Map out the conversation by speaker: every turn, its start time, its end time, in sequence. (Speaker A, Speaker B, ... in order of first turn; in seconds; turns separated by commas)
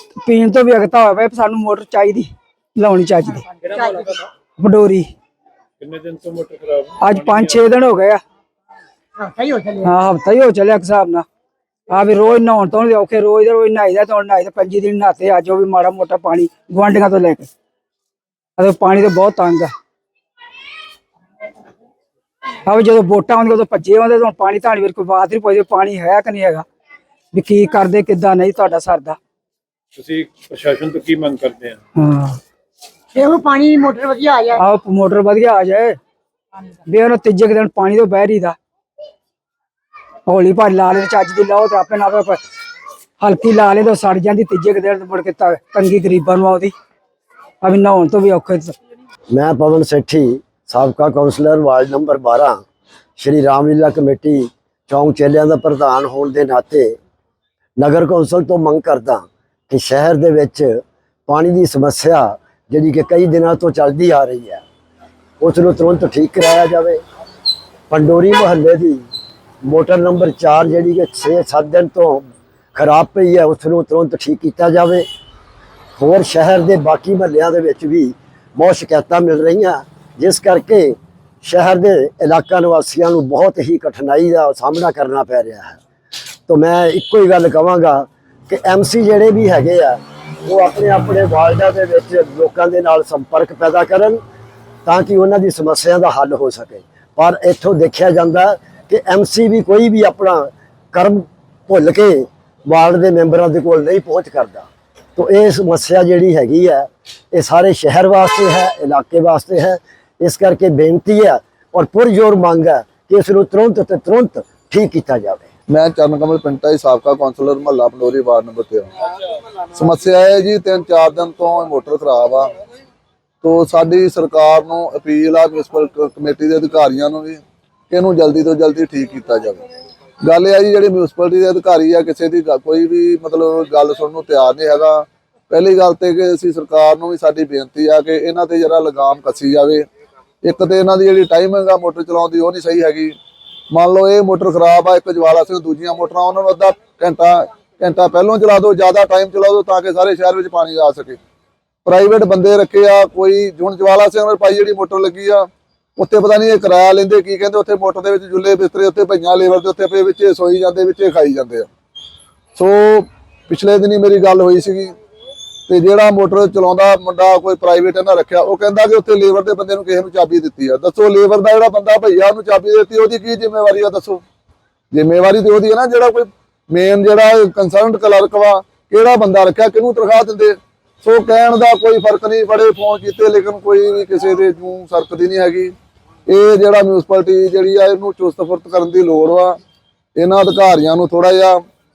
Speaker A: 0.2-3.5, Speaker B: 3.7-4.1, Speaker A: 4.6-5.1, Speaker B: 5.8-7.6, Speaker A: 7.0-8.2, Speaker C: 9.2-9.9, Speaker A: 9.8-11.2, Speaker A: 11.9-17.5, Speaker A: 18.6-19.7, Speaker A: 22.6-26.6, Speaker A: 27.3-29.2, Speaker B: 29.9-31.8, Speaker A: 31.9-32.4, Speaker C: 33.1-34.6, Speaker A: 34.5-36.0, Speaker A: 36.9-38.6, Speaker A: 40.3-42.4, Speaker A: 43.2-46.7, Speaker A: 47.6-48.7, Speaker D: 49.3-52.6, Speaker D: 53.2-57.0, Speaker D: 57.8-64.6, Speaker D: 65.4-67.0, Speaker D: 67.9-69.1, Speaker D: 69.6-75.0, Speaker D: 76.0-85.8, Speaker D: 86.5-94.2, Speaker D: 94.8-115.5, Speaker E: 115.7-118.9, Speaker E: 119.7-122.5, Speaker E: 123.4-129.6, Speaker E: 130.2-139.8, Speaker E: 140.4-143.2, Speaker E: 143.7-151.2, Speaker E: 151.8-161.7, Speaker E: 162.6-164.9, Speaker E: 165.7-174.2, Speaker E: 174.9-185.7, Speaker E: 186.3-189.6, Speaker E: 190.2-191.6